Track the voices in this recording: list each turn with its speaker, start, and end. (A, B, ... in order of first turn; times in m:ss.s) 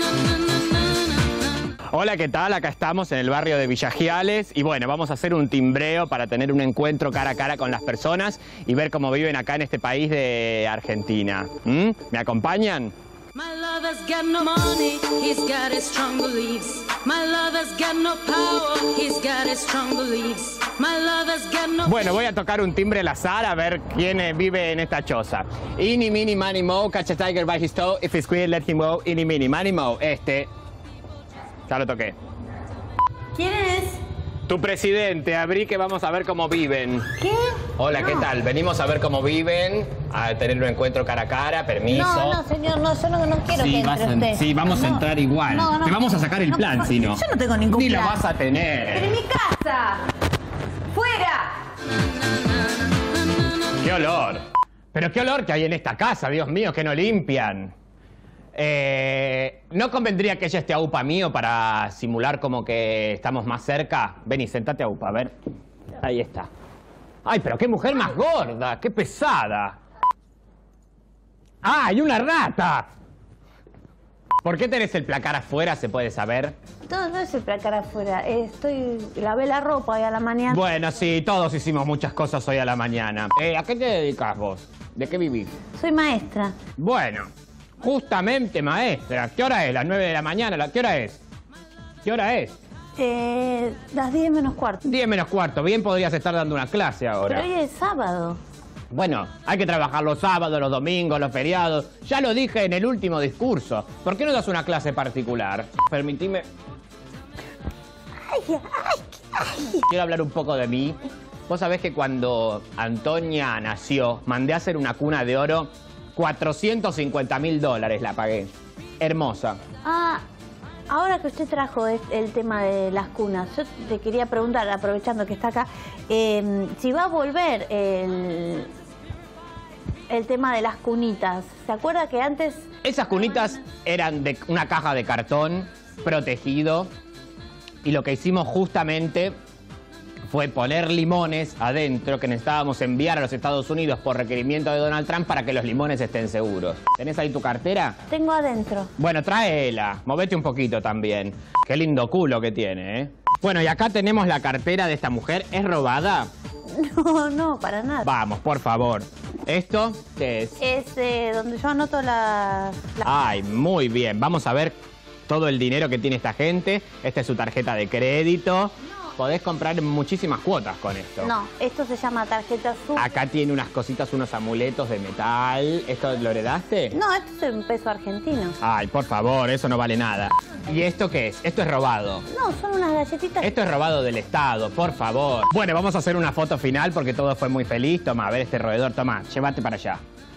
0:01.9-0:12.9 A
0:13.3-0:22.0 B
0:21.8-0:30.5 A
0:31.7-0:32.1 A
0:33.3-0:34.0 C
0:34.5-0:37.1 A
0:37.2-0:38.3 C
0:37.8-0:42.4 A
0:41.9-0:48.2 C
0:43.5-0:49.1 A
0:48.9-0:50.0 C
0:50.9-0:51.6 C
0:53.8-0:54.4 A
0:54.9-0:57.7 A
0:58.5-1:05.3 A
1:06.0-1:06.5 A
1:07.2-1:09.8 A
1:11.6-1:12.9 A
1:14.4-1:16.6 A
1:16.8-1:20.6 C
1:20.5-1:25.5 A
1:25.7-1:26.5 C
1:26.8-1:27.3 A
1:27.8-1:31.2 A
1:32.0-1:32.6 A
1:33.0-1:34.8 C
1:34.8-1:37.5 A
1:37.2-1:38.4 C
1:38.9-1:46.4 A
1:48.3-1:49.8 C
1:49.9-1:59.6 A
1:59.8-2:00.2 C
2:00.9-2:08.7 C
2:10.1-2:12.7 C
2:12.8-2:16.9 A
2:17.8-2:19.3 A
2:20.3-2:28.0 A
2:28.1-2:28.9 C
2:29.0-2:36.3 A
2:36.7-2:38.1 C
2:38.0-2:40.6 A
2:40.6-2:43.0 C
2:43.0-2:51.3 A
2:51.2-2:53.1 C
2:53.0-2:57.0 A
2:56.9-2:58.6 C
2:58.6-3:02.2 A
3:02.3-3:03.5 C
3:03.4-3:10.0 A